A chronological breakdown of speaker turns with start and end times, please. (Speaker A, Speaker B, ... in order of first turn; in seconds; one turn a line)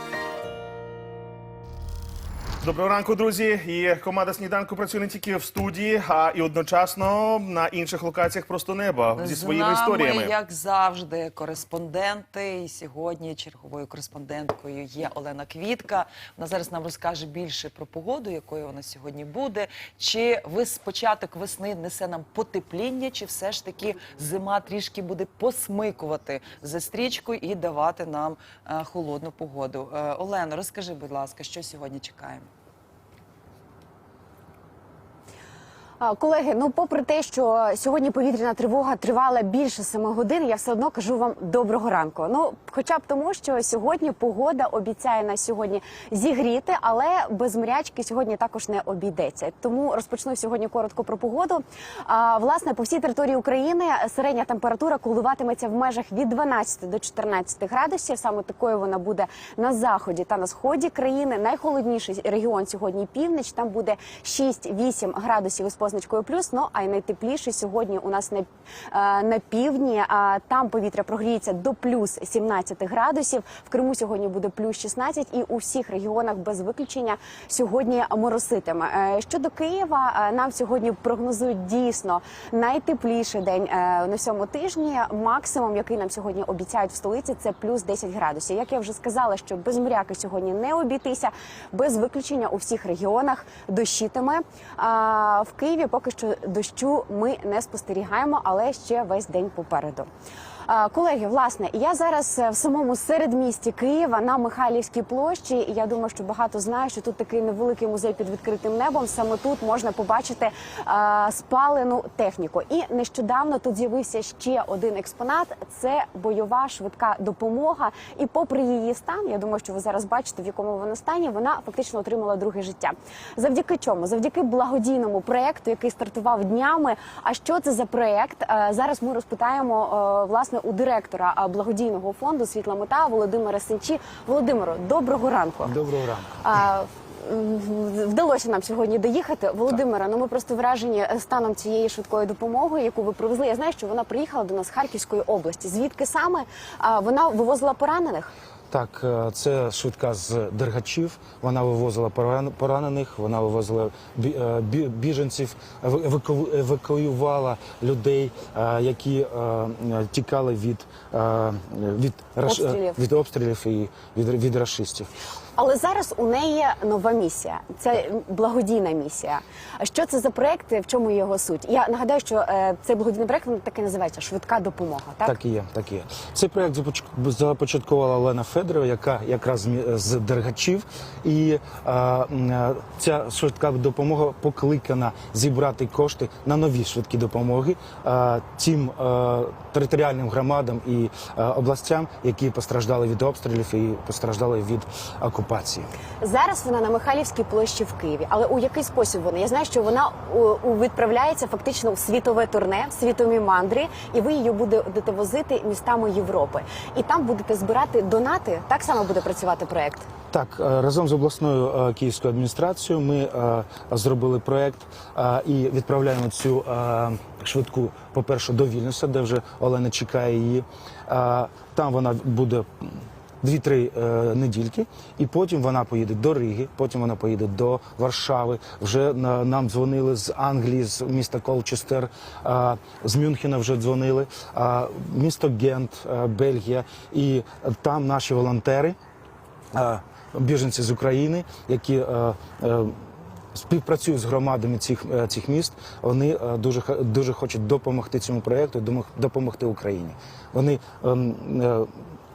Speaker A: 2.6-10.3
Speaker B: 9.2-32.5
Speaker C: 36.0-100.1
Speaker C: 100.7-135.8
Speaker D: 135.6-136.4
Speaker C: 136.4-148.3
Speaker D: 148.7-165.1
Speaker C: 162.4-163.0
Speaker C: 165.6-175.4
Speaker D: 175.2-195.9
Speaker C: 196.2-210.1
Speaker D: 210.3-238.9
Speaker D: 239.7-243.0
Speaker D: 243.5-251.9